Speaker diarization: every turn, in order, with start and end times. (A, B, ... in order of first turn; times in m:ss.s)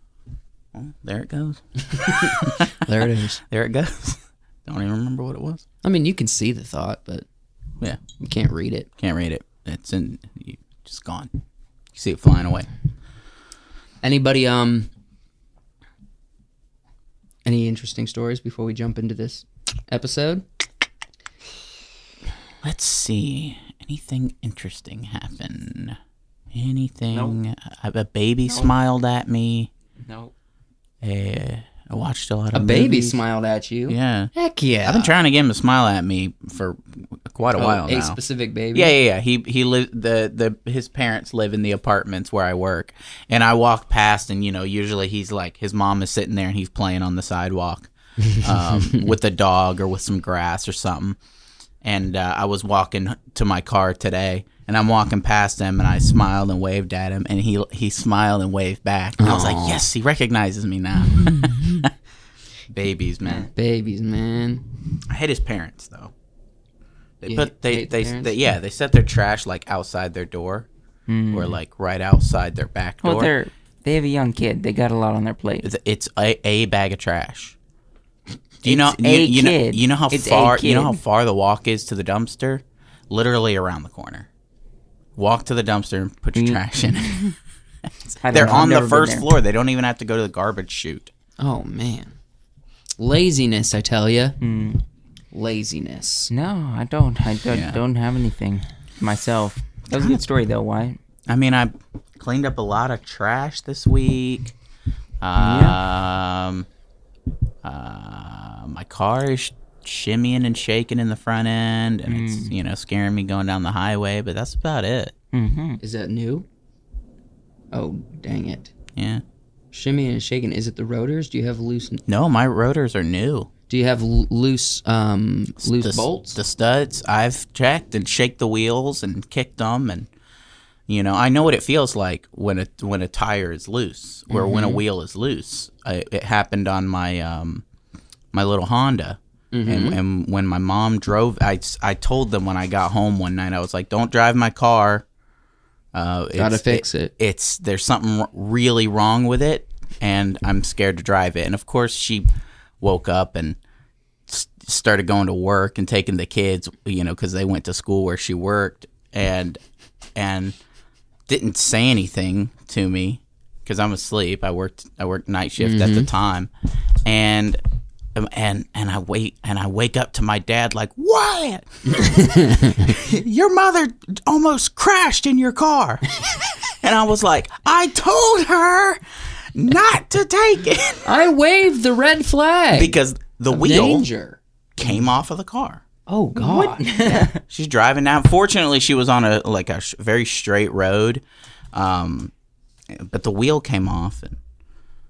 0:00.7-0:02.9 A
0:02.1-0:03.4 B
0:03.5-0:05.6 A
0:05.8-0:07.3 B
0:08.2-0:08.9 B
0:09.0-0:11.3 A
0:11.9-0:12.7 A
0:14.0-0:14.9 B
0:17.4-0:20.4 B
0:22.6-0:26.0 A
0:26.5-0:29.7 A
0:27.1-0:27.4 C
0:28.5-0:28.7 C
0:30.0-0:30.3 C
0:31.0-0:33.2 A
0:32.5-0:35.2 B
0:33.9-0:34.3 A
0:34.8-0:38.2 A
0:37.6-0:38.9 B
0:38.7-0:51.2 A
0:48.5-0:49.1 B
0:51.8-1:01.9 A
0:59.2-0:59.8 B
1:01.2-1:01.5 B
1:02.7-1:03.5 A
1:03.2-1:03.5 C
1:03.5-1:04.6 B
1:05.1-1:06.1 A
1:07.2-1:08.4 B
1:07.2-1:10.7 A
1:11.1-1:11.6 C
1:11.3-1:13.3 A
1:13.0-1:15.7 C
1:15.6-1:17.6 A
1:18.6-1:24.3 A
1:18.6-1:21.0 C
1:25.2-1:27.3 A
1:26.4-1:27.3 C
1:28.2-1:29.3 C
1:28.3-1:31.1 A
1:31.4-1:32.1 B
1:33.0-1:34.4 B
1:34.4-1:34.8 C
1:35.3-1:36.3 B
1:36.3-1:41.0 C
1:37.5-1:37.8 A
1:39.9-1:40.2 A
1:41.3-1:44.5 A
1:45.2-1:46.7 A
1:45.4-1:45.8 C
1:47.6-1:55.1 A
1:52.1-1:52.5 C
1:55.3-1:55.8 C
1:55.8-1:56.5 B
1:57.7-1:58.7 B
1:59.0-1:59.2 A
1:59.7-2:02.0 B
2:02.1-2:03.5 A
2:03.7-2:06.4 B
2:05.6-2:10.1 A
2:10.9-2:17.6 A
2:14.3-2:14.8 B
2:18.3-2:25.0 A
2:19.5-2:20.0 B
2:25.9-2:32.3 A
2:26.4-2:27.1 B
2:32.8-2:33.6 A
2:34.3-2:39.6 A
2:40.2-2:40.6 A
2:41.3-2:46.5 A
2:45.6-2:46.1 B
2:47.1-2:47.6 A
2:48.2-2:56.1 A
2:51.9-2:53.0 B
2:56.8-2:59.0 A
2:59.6-3:01.1 A
3:01.0-3:03.0 B
3:02.7-3:04.1 A
3:03.5-3:04.9 B
3:04.8-3:05.8 A
3:06.1-3:07.3 B
3:06.4-3:07.4 C
3:07.4-3:12.3 A
3:12.9-3:14.4 A